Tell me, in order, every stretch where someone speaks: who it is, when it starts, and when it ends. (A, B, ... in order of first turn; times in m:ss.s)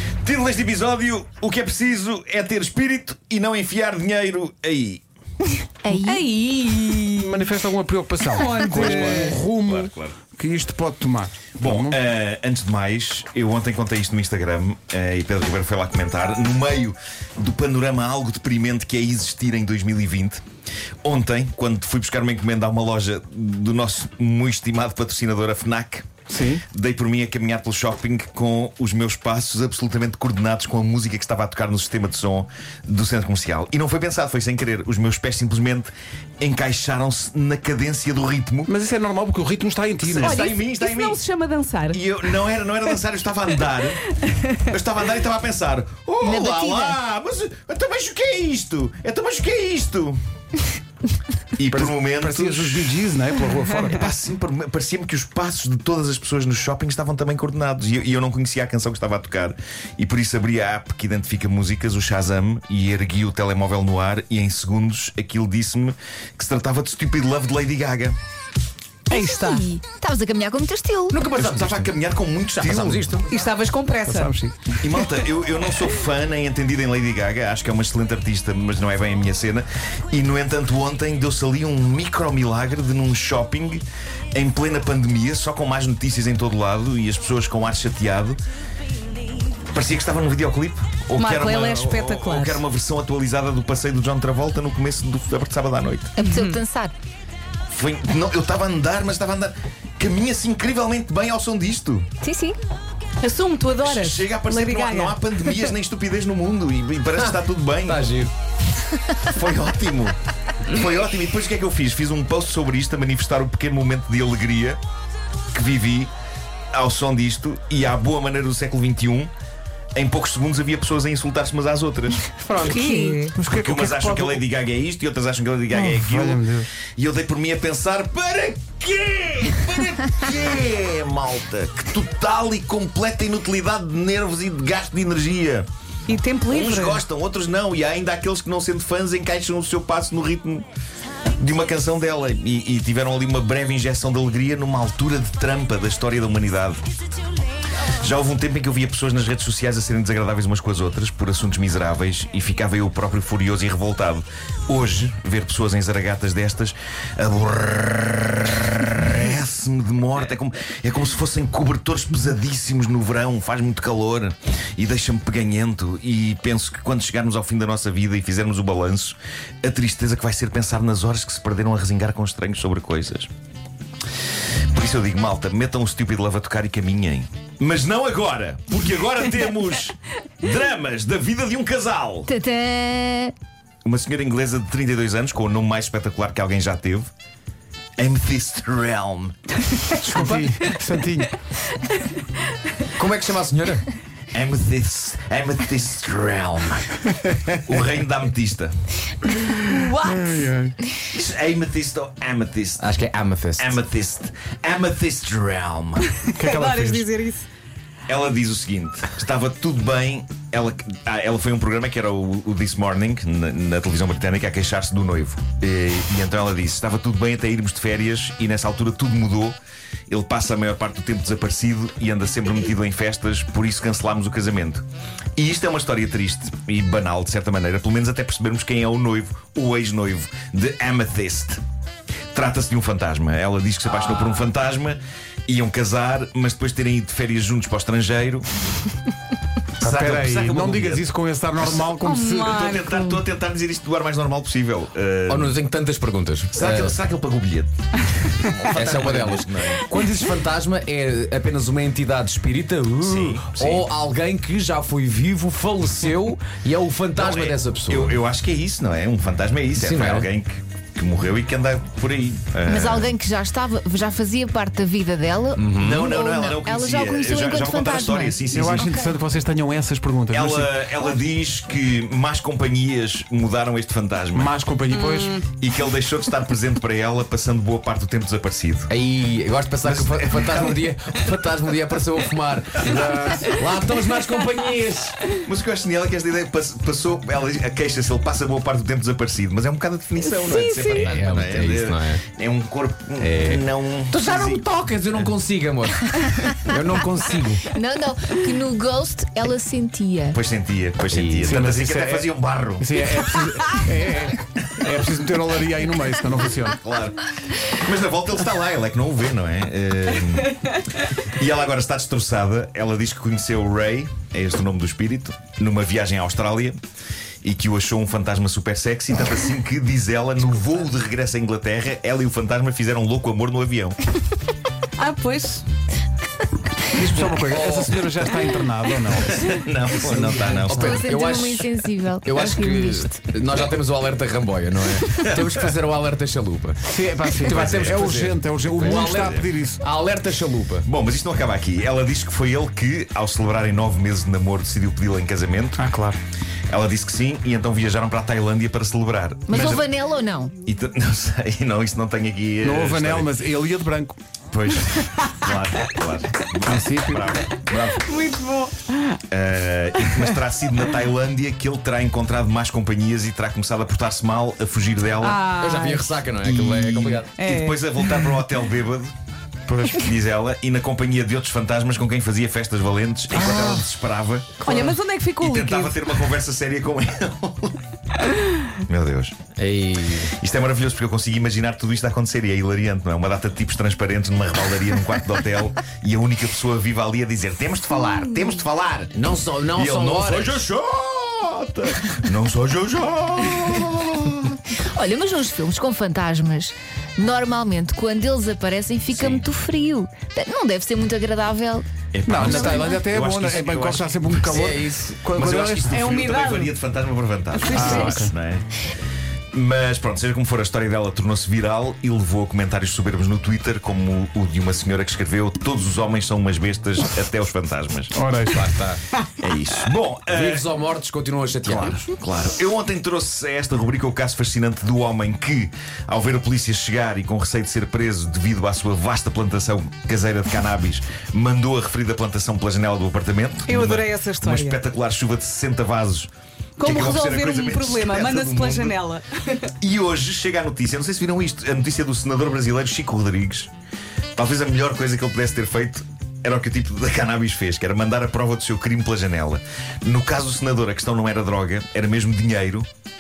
0:00.2-0:05.0 A
0:05.8-0:06.2 B
0:05.9-0:07.5 C
0:07.2-0:12.0 D
0:08.3-0:09.4 C
0:08.7-0:10.2 A
0:11.6-0:20.4 A
0:21.0-0:26.1 A
0:26.3-0:26.6 D
0:26.7-0:38.7 A
0:38.7-0:40.4 D
0:40.0-0:41.2 A
0:40.2-0:42.0 C
0:41.9-0:44.1 A
0:44.7-0:50.2 A
0:46.2-0:47.0 B
0:51.6-0:52.9 A
0:51.7-0:54.0 D
0:53.8-1:08.2 A
1:09.1-1:09.6 C
1:09.1-1:11.2 B
1:11.1-1:13.3 E
1:11.3-1:13.2 A
1:13.3-1:14.4 C
1:14.1-1:14.8 D
1:14.8-1:23.8 A
1:24.3-1:28.4 A
1:29.7-1:36.1 A
1:31.2-1:32.6 C
1:36.2-1:36.9 B
1:36.2-1:36.6 C
1:37.7-1:42.1 A
1:42.2-1:42.6 B
1:43.2-1:45.6 C
1:43.8-1:48.1 A
1:47.2-1:48.3 E
1:49.2-1:54.8 A
1:55.5-1:56.1 A
1:56.7-1:59.3 A
2:00.0-2:02.3 A
2:02.4-2:03.4 C
2:02.5-2:03.2 B
2:03.3-2:04.4 D
2:03.4-2:06.4 A
2:05.7-2:06.7 D
2:07.0-2:15.7 A
2:16.1-2:17.0 C
2:16.5-2:20.7 A
2:21.4-2:26.8 A
2:28.0-2:53.3 A
2:54.7-3:02.3 A
3:02.3-3:03.3 B
3:03.8-3:07.1 A
3:08.0-3:09.4 A
3:10.0-3:11.4 D
3:10.1-3:10.4 E
3:13.0-3:13.9 E
3:14.3-3:17.0 A
3:17.6-3:18.7 A
3:19.7-3:20.5 C
3:20.0-3:20.8 D
3:21.1-3:22.8 A
3:22.8-3:23.8 E
3:23.6-3:26.1 A
3:26.4-3:27.1 D
3:26.4-3:27.5 C
3:28.1-3:39.6 A
3:40.1-3:44.8 A
3:45.4-3:51.6 A
3:52.3-3:58.5 A
3:54.0-3:54.5 E
3:59.8-4:01.1 A
3:59.8-4:02.8 D
4:02.0-4:03.1 C
4:02.4-4:05.6 A
4:05.3-4:07.0 E
4:06.5-4:09.9 A
4:08.7-4:18.2 E
4:13.0-4:13.9 A
4:17.2-4:23.2 A
4:19.8-4:20.3 E
4:22.7-4:29.1 B
4:25.6-4:26.1 E
4:25.8-4:28.9 A
4:28.5-4:30.8 D
4:30.3-4:34.6 A
4:34.3-4:35.4 D
4:34.9-4:35.5 C
4:35.6-4:38.9 A
4:38.9-4:45.2 E
4:39.8-4:40.9 A
4:42.8-4:43.6 D
4:45.4-4:54.7 A
4:50.3-4:51.0 C
4:50.9-4:52.3 E
4:53.2-4:57.8 E
4:57.7-5:00.4 B
5:00.3-5:03.0 A
5:01.1-5:01.6 E
5:01.4-5:06.8 D
5:06.8-5:16.8 A
5:17.4-5:24.0 A
5:25.0-5:25.6 C
5:26.9-5:29.5 D
5:27.2-5:28.0 E
5:29.1-5:31.1 A
5:30.6-5:40.9 E
5:30.7-5:33.2 B
5:35.0-5:35.5 A
5:36.8-5:39.8 D
5:37.5-5:38.2 A
5:38.8-5:39.5 A
5:40.8-5:45.8 A
5:45.8-5:46.2 D
5:46.7-5:49.9 A
5:49.5-5:50.5 B
5:50.6-5:53.3 A
5:52.6-5:54.2 D
5:54.5-5:58.1 A
5:56.7-5:57.4 D
5:57.8-5:59.2 C
5:59.3-6:05.4 A
6:05.2-6:07.4 E
6:05.3-6:06.1 C
6:06.4-6:09.1 A
6:07.4-6:07.9 C
6:09.7-6:10.1 D
6:09.9-6:14.8 A
6:13.3-6:13.9 D
6:14.6-6:16.1 C
6:15.4-6:17.8 A
6:18.9-6:19.4 A
6:19.6-6:20.3 E
6:20.3-6:29.2 A
6:29.1-6:30.6 E
6:29.7-6:34.6 A
6:34.7-6:41.9 B
6:39.1-6:39.5 A
6:42.1-6:44.7 A
6:42.3-6:46.2 D
6:42.4-6:43.0 B
6:44.5-6:45.3 E
6:45.3-6:48.6 A
6:45.9-6:46.7 C
6:47.6-6:48.2 C
6:47.7-6:48.3 D
6:49.5-6:58.2 A
6:58.1-6:58.7 D
6:58.5-6:59.0 E
6:59.4-7:00.7 A
7:00.3-7:02.1 E
7:01.7-7:19.0 A
7:13.7-7:14.8 C
7:16.8-7:19.7 C
7:19.8-7:23.7 A
7:24.4-7:32.9 A